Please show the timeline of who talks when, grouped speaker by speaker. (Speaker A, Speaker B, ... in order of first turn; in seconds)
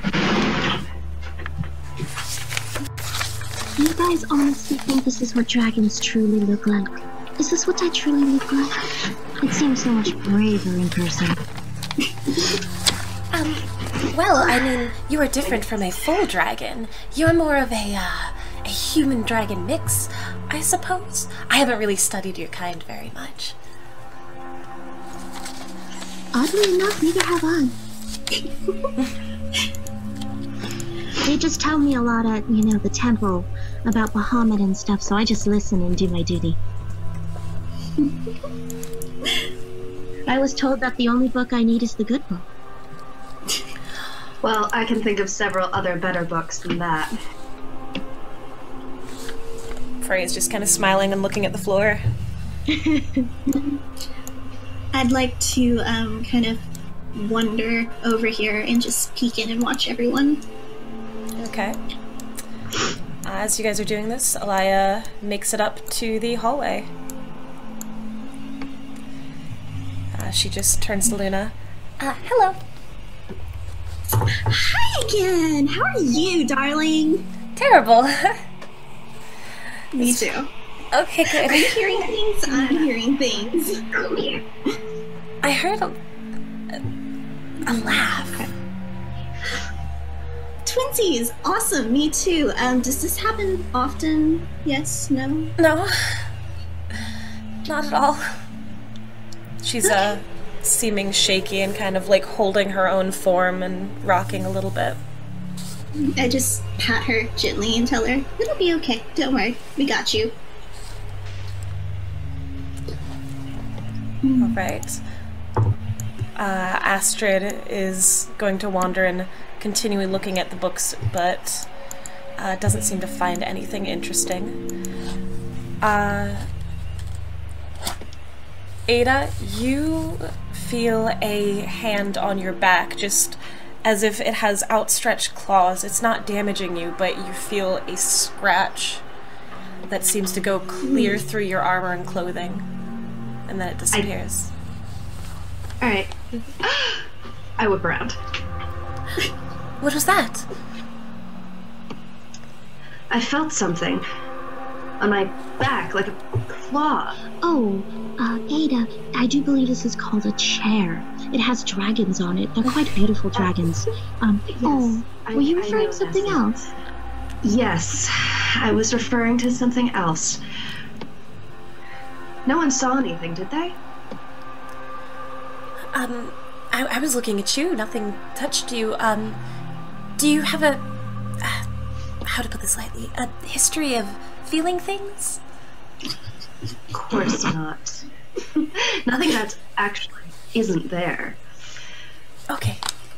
Speaker A: 3.8-8.9, 9.4-11.4, 26.3-27.8, 31.2-36.6, 40.3-42.5, 157.4-166.6
Speaker B: 13.3-23.6, 50.0-52.0, 61.4-61.8, 63.2-66.9, 70.1-72.6, 77.6-78.3, 80.0-80.2, 80.9-81.8, 85.4-86.0, 87.7-88.4, 95.6-96.3, 97.7-98.3, 99.6-105.0, 114.4-115.0, 116.4-121.7, 122.4-124.6, 125.8-126.5, 128.9-139.0, 139.9-142.7, 143.5-144.5, 149.8-150.5, 175.9-179.4, 180.2-180.8, 181.4-181.7, 182.3-185.4, 192.5-192.8
Speaker C: 44.4-47.1, 82.5-82.9, 145.8-147.0, 147.6-148.2, 153.1-154.0, 155.0-157.2, 164.5-166.6, 167.4-170.4, 172.5-173.8, 186.9-188.0, 189.0-191.4
Speaker D: 54.9-60.4, 74.3-77.2, 79.9-80.5, 81.3-84.4, 87.7-88.5, 90.7-95.5, 99.8-100.1, 106.0-110.3, 114.2-114.6